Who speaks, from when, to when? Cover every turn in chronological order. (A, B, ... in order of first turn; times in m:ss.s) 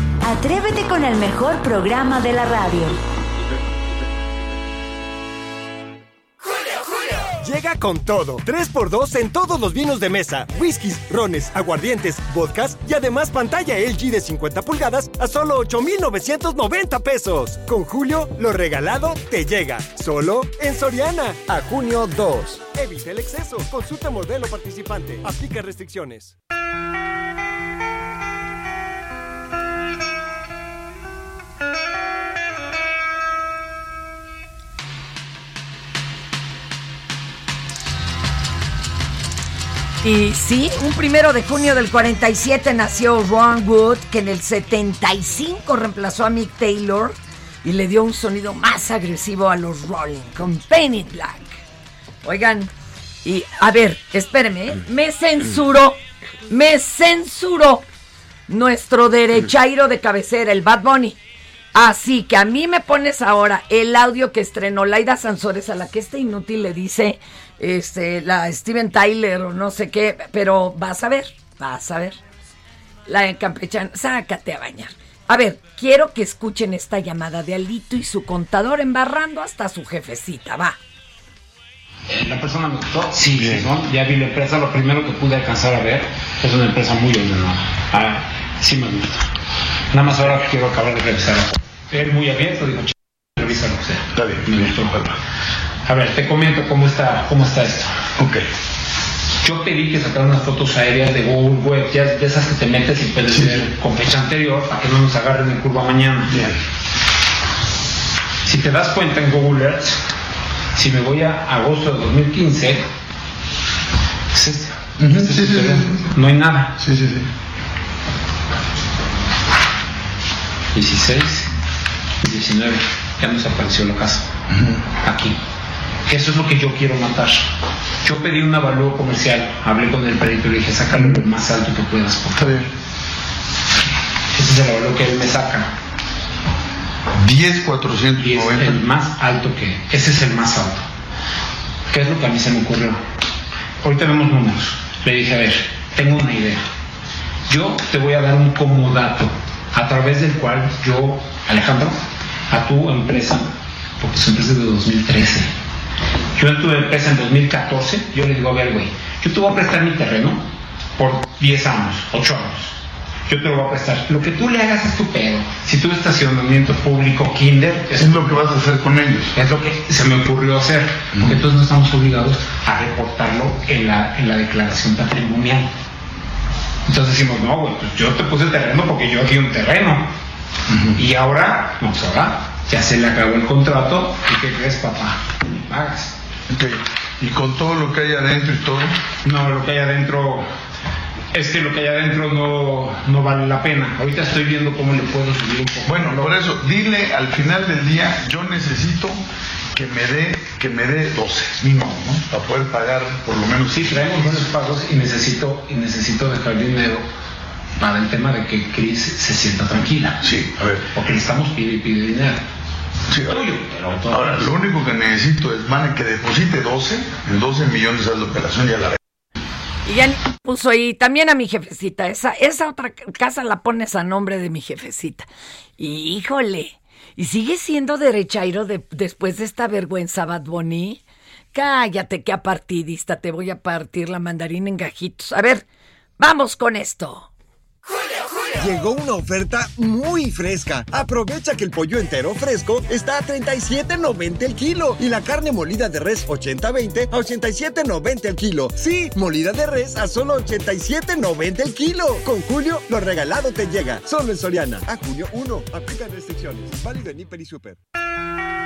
0:00.2-0:03.0 A
0:07.4-0:26.3 B
0:40.0-0:51.6 C
0:52.2-0:52.7 C
0:53.2-0:57.8 C
0:58.5-1:01.2 C
1:01.7-1:12.2 C
1:13.0-1:20.8 C
1:22.1-1:29.2 D
1:23.3-1:23.6 E
1:29.9-1:35.0 D
1:34.1-1:35.1 E
1:35.8-1:37.9 D
1:38.2-1:38.4 E
1:39.4-1:46.4 D
1:48.4-1:50.0 D
1:50.7-1:52.8 D
1:54.3-1:56.7 D
1:55.0-1:56.0 E
1:56.8-1:57.2 E
2:00.7-2:01.5 D
2:02.2-2:04.3 D
2:04.5-2:04.8 E
2:05.0-2:05.4 D
2:06.1-2:07.5 D
2:08.0-2:12.5 D
2:12.4-2:12.6 E
2:14.3-2:15.7 D
2:17.2-2:18.8 E
2:18.2-2:20.8 D
2:21.9-2:23.0 D
2:23.8-2:26.6 D
2:27.5-2:32.0 D
2:32.5-2:35.5 D
2:36.4-2:40.4 D
2:41.0-2:48.4 D
2:47.9-2:49.3 E
2:49.3-2:55.7 D
2:56.9-3:00.1 D
3:00.7-3:01.0 E
3:01.0-3:06.1 D
3:06.5-3:08.9 E
3:09.2-3:10.4 D
3:11.3-3:16.4 D
3:15.8-3:19.1 E
3:19.7-3:24.5 E
3:21.7-3:22.0 D
3:23.5-3:27.0 D
3:27.8-3:30.2 D
3:30.2-3:30.8 E
3:30.9-3:32.4 D
3:33.1-3:33.4 E
3:33.2-3:34.5 D
3:34.1-3:38.9 E
3:39.8-3:51.0 C
3:51.5-3:55.6 C
3:56.2-3:57.3 C
3:58.5-4:17.7 F
4:16.8-4:17.6 B